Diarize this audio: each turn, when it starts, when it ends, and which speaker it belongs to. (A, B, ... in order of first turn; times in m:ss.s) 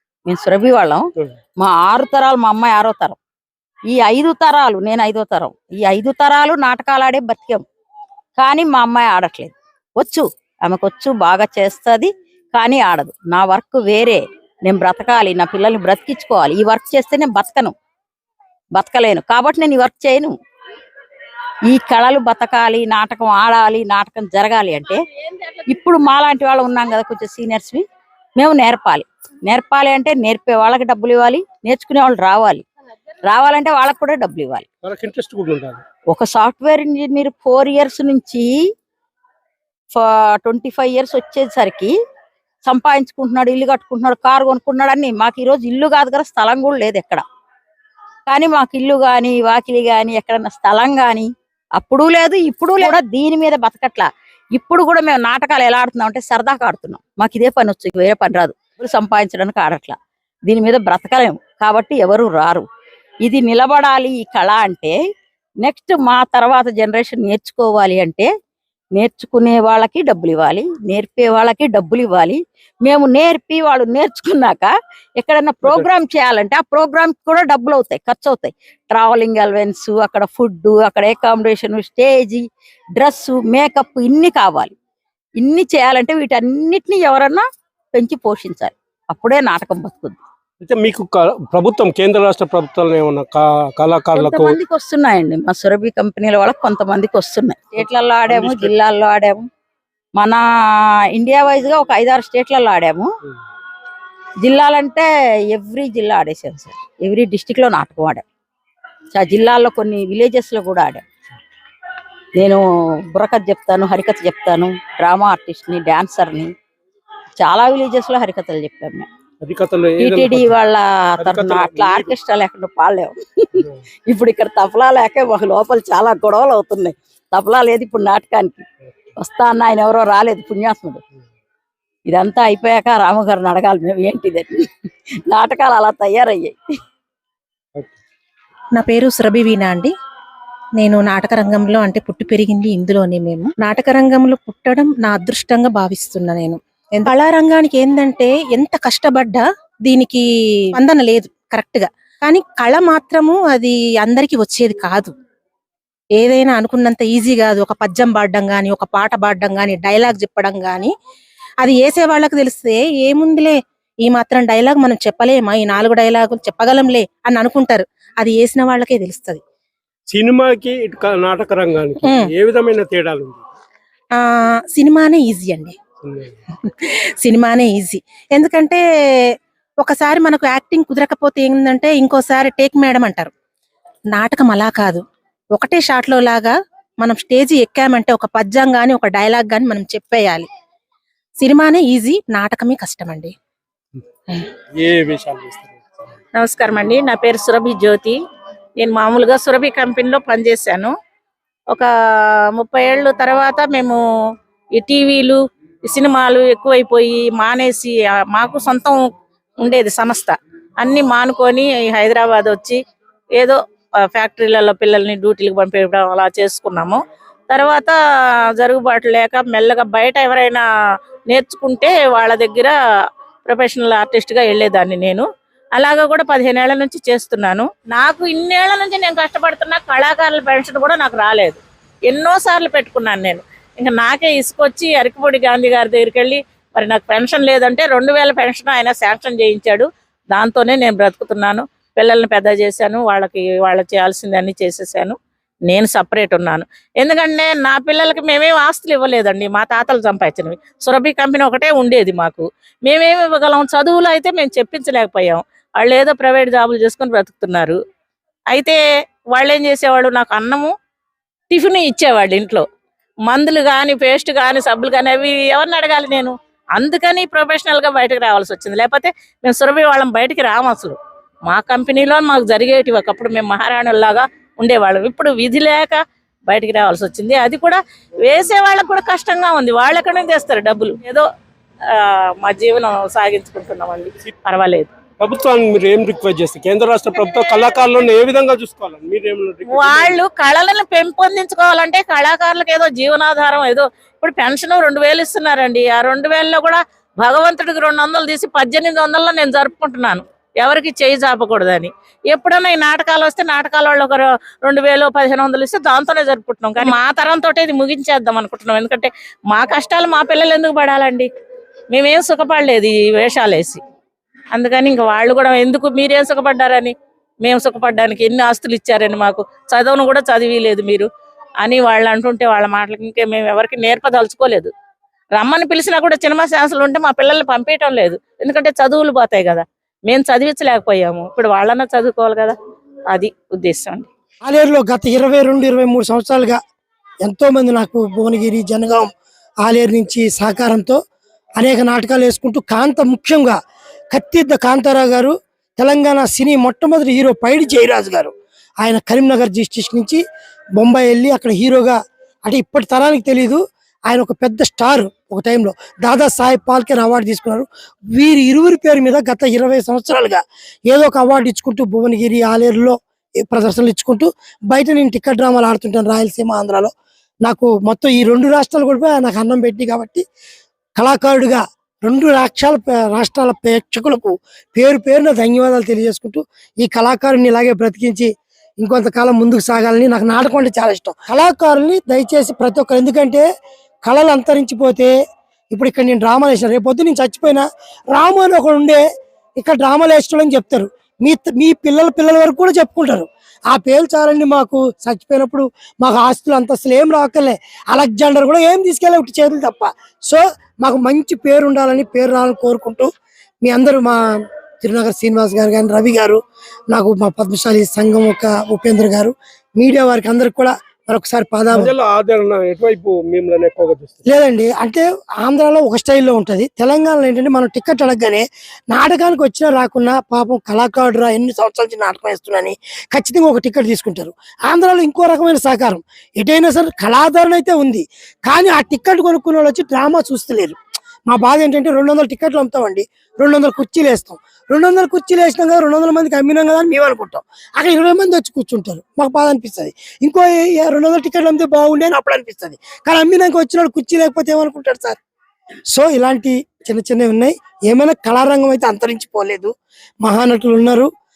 0:00.3-0:01.0 A
0:01.6-0:03.2 A
0:03.9-0:07.6 A
0:08.4-0:17.7 A
0:18.8-0:20.3 A
0:21.7-0:25.0 A
0:25.7-0:27.8 A
0:28.4-0:32.6 A
0:33.3-0:34.7 A
0:34.8-0:35.8 B
0:36.1-0:38.5 A
0:39.9-0:41.9 A
0:42.6-0:47.2 A
0:48.3-1:02.7 A
1:03.2-1:05.0 A
1:05.6-1:08.3 A
1:09.0-1:22.4 A
1:23.0-1:24.7 A
1:25.4-1:30.2 A
1:30.6-1:34.6 B
1:34.2-1:39.4 A
1:38.3-1:38.7 B
1:40.2-1:40.4 A
1:41.2-1:43.1 A
1:44.4-1:48.2 A
1:49.1-1:51.0 A
1:52.4-1:56.5 A
1:57.4-1:59.1 A
1:59.4-2:00.6 B
2:00.0-2:08.6 A
2:01.2-2:02.2 B
2:09.2-2:11.0 A
2:12.1-2:14.7 A
2:15.3-2:16.6 A
2:18.8-2:19.9 C
2:20.8-2:30.2 C
2:30.7-2:35.1 C
2:36.2-2:40.9 C
2:41.6-2:49.4 C
2:50.1-2:53.4 B
2:52.0-2:52.3 C
2:54.1-2:55.8 C
2:56.0-2:56.3 B
2:56.6-3:03.3 C
3:04.1-3:10.5 C
3:11.4-3:13.3 C
3:14.7-3:16.0 B
3:16.4-3:18.2 D
3:18.8-3:20.9 D
3:22.6-3:24.0 D
3:24.8-3:29.0 D
3:29.6-3:32.8 D
3:34.1-3:37.9 D
3:38.6-3:40.6 D
3:41.3-3:42.7 D
3:43.5-3:45.3 D
3:45.8-4:05.2 D
4:05.7-4:17.8 D
4:18.5-4:18.8 D
4:19.3-4:20.7 D
4:21.5-4:22.6 D
4:23.3-4:31.0 D
4:31.5-4:41.2 D
4:41.9-4:44.9 D
4:45.2-4:50.2 B
4:49.7-5:11.3 D
5:11.9-5:13.8 D
5:14.6-5:21.1 D
5:21.6-5:24.7 D
5:25.4-5:32.6 D
5:33.1-5:34.1 D
5:34.4-5:36.6 E
5:37.2-5:39.1 E
5:39.6-5:41.0 E
5:41.6-5:43.6 E
5:44.1-5:50.2 E
5:50.8-6:06.9 E
6:07.4-6:10.2 E
6:11.0-6:18.3 E
6:18.8-6:23.4 E
6:24.0-6:25.1 E
6:25.7-6:29.0 E
6:29.6-6:43.1 E
6:43.6-6:44.2 E
6:44.8-6:46.4 E
6:46.9-6:51.9 E
6:51.7-6:54.2 B
6:54.3-7:10.8 E
7:11.3-7:25.2 E
7:25.9-7:31.1 E